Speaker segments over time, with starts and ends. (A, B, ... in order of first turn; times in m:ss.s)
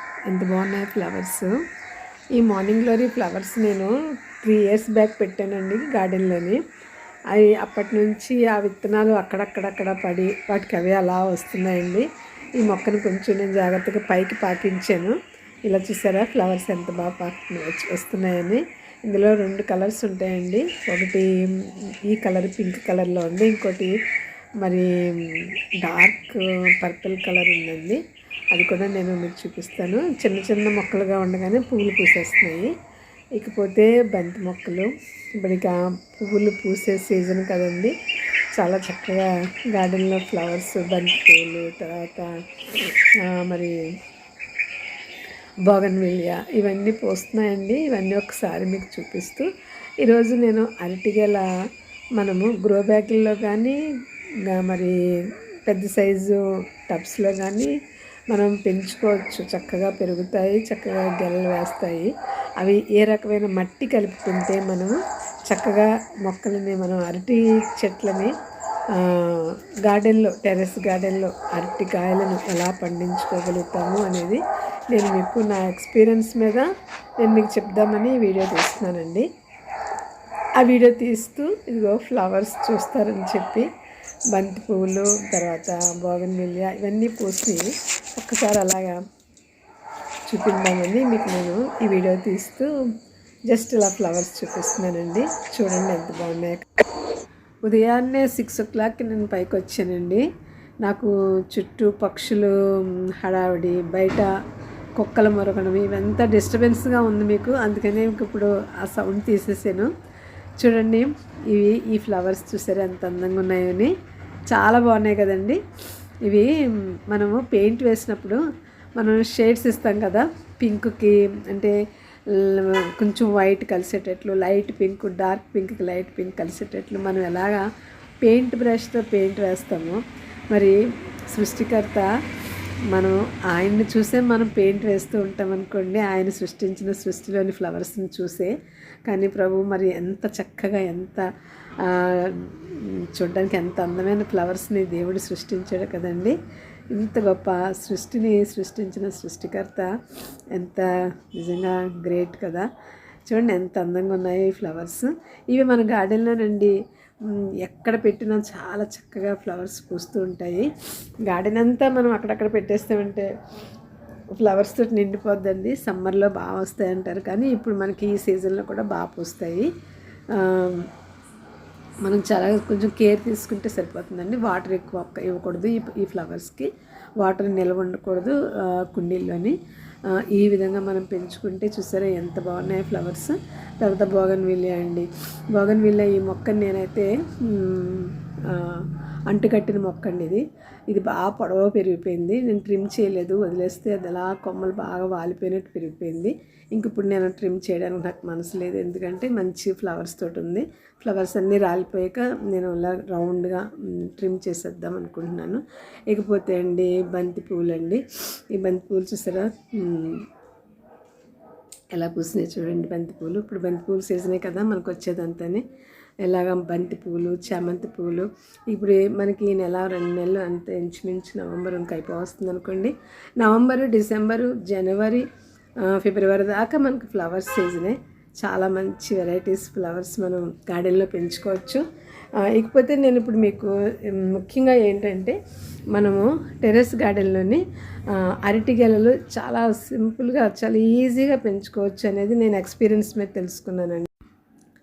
0:00.3-0:01.6 A
0:02.4-0:06.6 A
0:07.3-0:12.1 A
0:12.6-0:23.9 A
0:24.6-0:28.0 A
0:28.5-0:32.7 A
0:33.4-0:37.9 A
0:38.6-0:42.4 A
0:43.2-0:43.8 A
0:45.7-0:49.5 A
0:50.0-0:51.4 A
0:52.2-0:53.8 A
0:54.5-0:55.0 A
0:55.7-0:57.7 A
0:58.3-1:05.0 A
1:05.5-1:08.3 A
1:09.0-1:14.4 A
1:14.9-1:16.7 A
1:17.2-1:19.3 A
1:20.6-1:23.7 A
1:24.3-1:29.0 A
1:30.3-1:32.7 A
1:33.5-1:36.7 A
1:37.6-1:40.2 A
1:40.8-1:42.5 A
1:43.2-1:44.3 A
1:45.0-1:49.9 A
1:50.6-1:53.9 A
1:54.5-1:55.6 A
1:57.1-1:58.4 A
1:59.0-2:01.8 A
2:02.4-2:07.6 A
2:08.2-2:10.0 A
2:10.5-2:10.8 A
2:11.3-2:12.1 A
2:12.9-2:18.5 A
2:19.1-2:21.2 A
2:21.8-2:26.4 A
2:26.9-2:29.9 A
2:30.6-2:32.7 A
2:33.3-2:36.7 A
2:37.3-2:40.7 A
2:41.3-2:43.3 A
2:44.4-2:49.7 A
2:50.3-2:50.9 A
2:52.0-2:59.6 A
3:00.1-3:28.0 A
3:28.5-3:30.2 A
3:32.0-3:35.6 A
3:36.2-3:45.3 A
3:45.8-3:51.8 A
3:52.4-3:55.4 A
3:55.9-3:57.6 A
3:58.4-4:04.1 A